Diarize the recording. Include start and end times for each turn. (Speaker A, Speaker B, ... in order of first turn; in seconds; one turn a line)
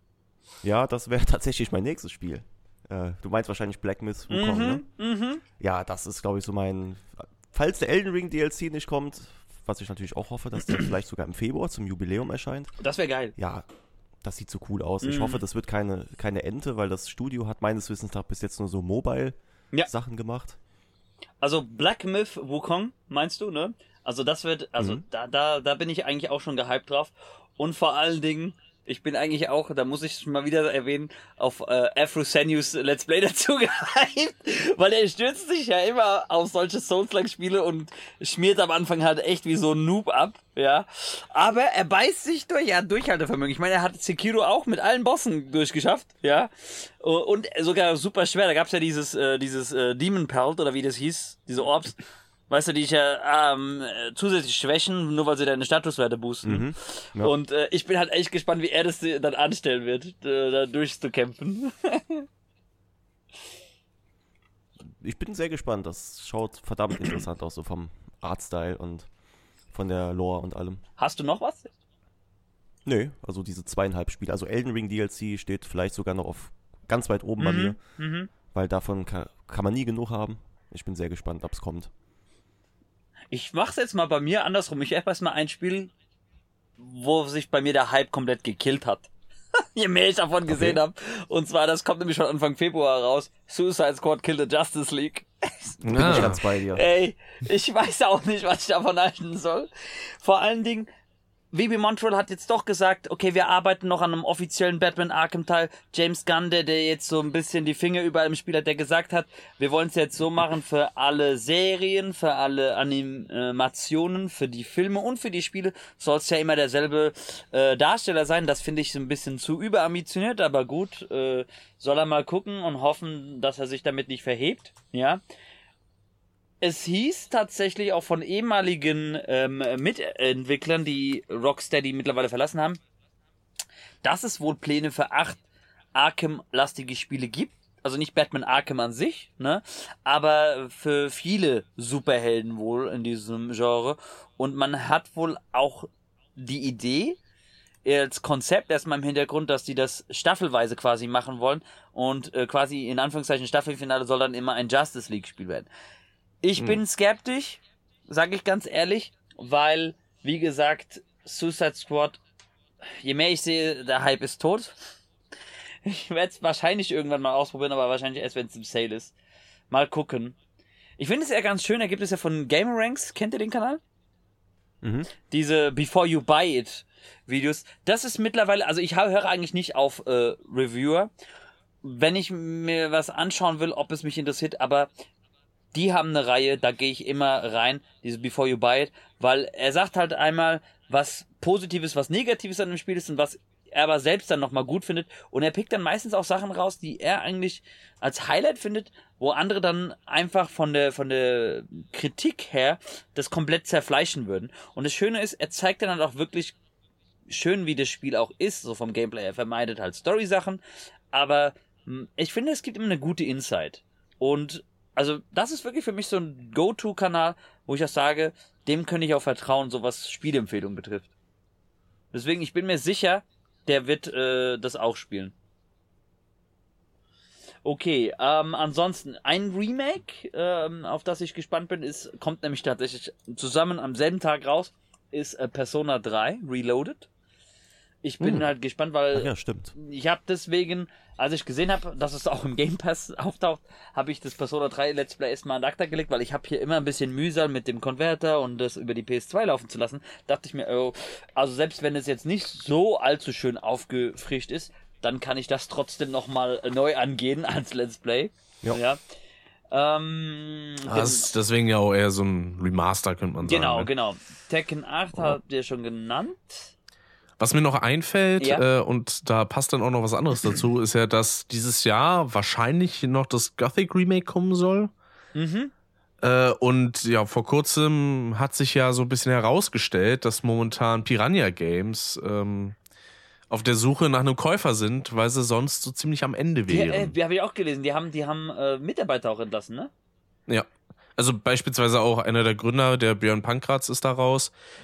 Speaker A: 0.6-4.8
Speaker B: 4.3-5.4
Speaker A: 5.6-12.7
Speaker B: 12.8-13.3
Speaker A: 13.3-13.6
Speaker A: 14.2-20.6
Speaker B: 15.0-15.4
Speaker B: 21.4-62.3
Speaker A: 56.4-57.3
Speaker A: 64.8-69.1
Speaker A: 69.7-70.8
Speaker B: 71.0-71.7
Speaker A: 72.8-77.8
Speaker B: 77.4-78.3
Speaker A: 78.5-81.9
Speaker B: 83.3-85.9
Speaker B: 86.8-100.9
Speaker A: 90.5-90.8
Speaker C: 95.8-96.4
Speaker A: 95.9-96.8
Speaker B: 101.5-125.2
Speaker B: 126.6-132.8
Speaker B: 134.0-135.4
Speaker B: 135.9-147.2
Speaker B: 147.8-155.7
Speaker B: 156.4-162.2
Speaker B: 162.8-165.0
Speaker B: 165.8-169.1
Speaker B: 169.7-170.3
Speaker B: 171.0-173.8
Speaker A: 174.8-175.1
Speaker B: 175.3-181.1
Speaker B: 181.8-184.9
Speaker B: 185.7-206.6
Speaker B: 207.3-221.1
Speaker B: 222.1-225.3
Speaker B: 227.6-237.1
Speaker B: 238.0-259.0
Speaker C: 238.2-238.5
Speaker A: 239.1-239.7
Speaker B: 259.7-261.3
Speaker C: 260.9-263.9
Speaker B: 263.4-266.7
Speaker C: 267.4-274.9
Speaker B: 268.4-268.6
Speaker B: 275.3-275.7
Speaker C: 276.2-282.8
Speaker C: 283.5-287.1
Speaker B: 286.7-289.9
Speaker C: 290.5-294.5